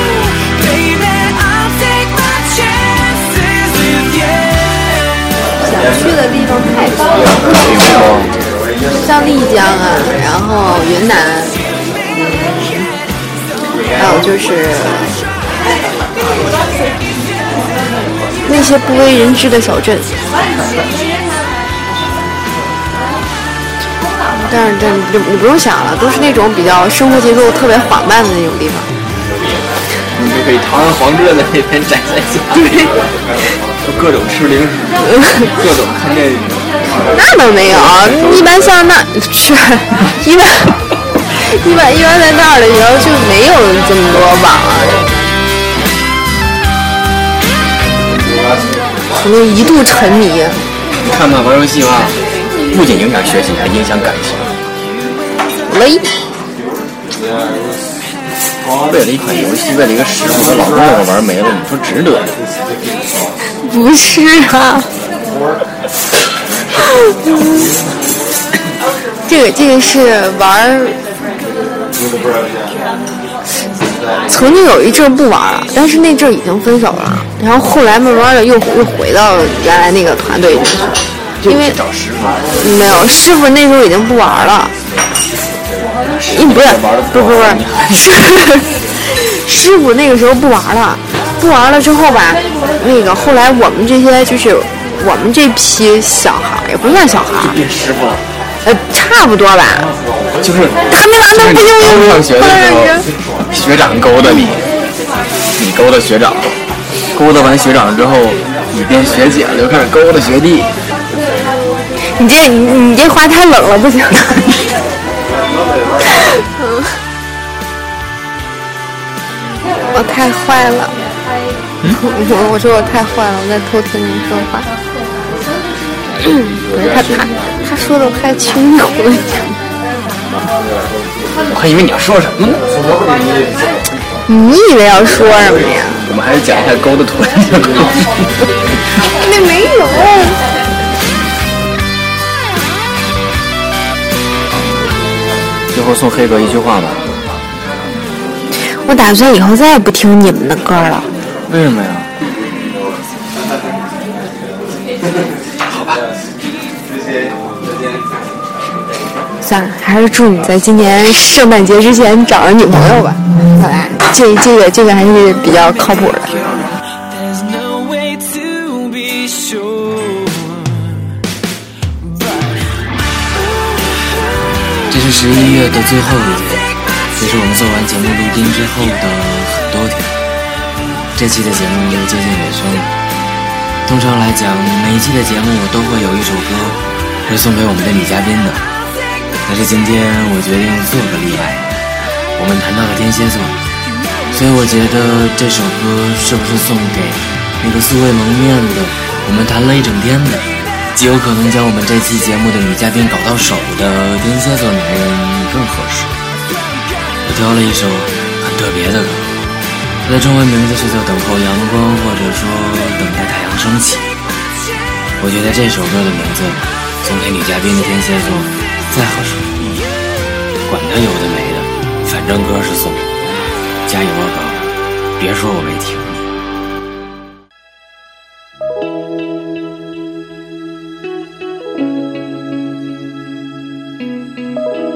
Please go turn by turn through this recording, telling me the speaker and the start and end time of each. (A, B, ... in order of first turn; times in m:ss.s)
0:00.3-0:05.2 A
0:05.6-0:07.2 B
0:07.5-0:08.3 C
0:08.9-0:11.6 B
0:14.0-0:15.2 B
0:18.4-0:20.1 B
0:24.5-0:28.9 B
0:30.1-0:32.9 C
0:33.8-0:35.0 C
0:35.0-0:35.5 B
0:35.5-0:36.7 C
0:37.1-0:40.8 B
0:37.7-0:38.5 C
0:41.3-0:45.0 B
0:49.1-0:50.6 B
0:51.0-0:52.2 C
0:52.7-0:54.4 C
0:55.7-0:56.1 B
0:58.9-1:02.3 C
1:03.6-1:04.9 B
1:07.0-1:07.7 B
1:09.3-1:11.0 B
1:14.3-1:20.9 B
1:21.4-1:22.5 C
1:21.4-1:21.8 B
1:22.6-1:24.7 B
1:26.0-1:28.1 C
1:26.3-1:37.6 B
1:37.4-1:38.2 C
1:38.6-1:39.9 B
1:40.4-1:44.6 C
1:40.9-1:43.1 B
1:45.6-1:46.5 C
1:47.1-1:50.7 C
1:52.1-1:54.7 B
1:56.2-1:56.9 B
1:59.9-2:00.9 B
2:01.9-2:04.7 B
2:06.2-2:09.6 B
2:11.5-2:12.6 C
2:14.3-2:16.0 B
2:16.1-2:18.1 C
2:19.2-2:20.4 B
2:25.7-2:27.0 C
2:28.7-2:31.1 B
2:31.5-2:32.1 C
2:35.7-2:36.0 C
2:39.4-2:46.3 B
2:46.9-2:51.1 A
2:52.0-2:52.7 A
2:54.9-3:00.1 D
3:01.1-3:02.9 D
3:03.8-3:08.6 D
3:09.4-3:11.7 D
3:12.4-3:13.6 D
3:14.3-3:26.1 D
3:27.2-3:29.3 D
3:30.0-3:34.1 D
3:35.2-3:39.8 D
3:40.7-3:43.1 D
3:43.8-3:46.3 D